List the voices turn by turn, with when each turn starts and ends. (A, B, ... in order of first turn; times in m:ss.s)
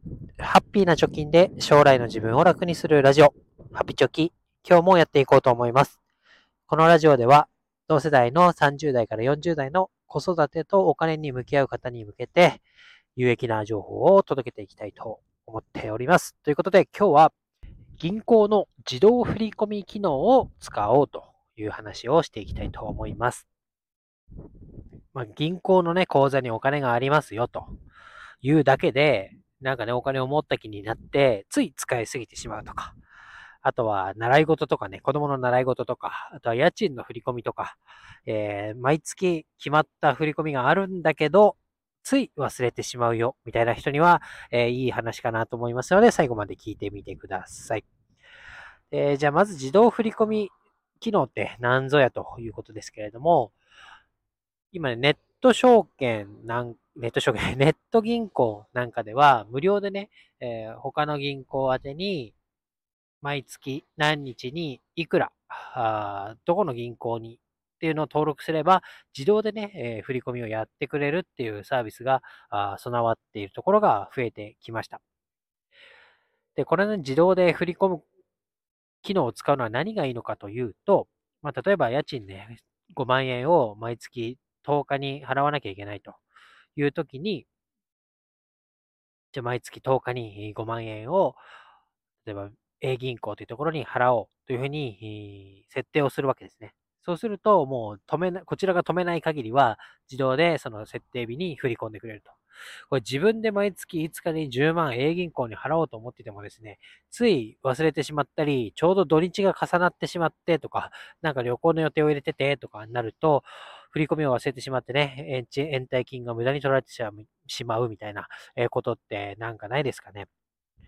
0:00.4-0:06.0 A
0:06.7-0:12.6 A
0:13.2-0:17.3 A
0:18.0-0:23.5 A
0:25.1-0:27.7 A
0:28.4-0:33.0 A
0:33.6-0:47.8 A
0:48.9-0:53.5 A
0:54.7-1:02.3 A
1:03.2-1:15.0 A
1:16.6-1:18.0 A
1:19.0-1:26.2 A
1:26.8-1:27.4 A
1:29.3-1:31.4 A
1:32.2-1:42.4 A
1:42.9-2:00.3 A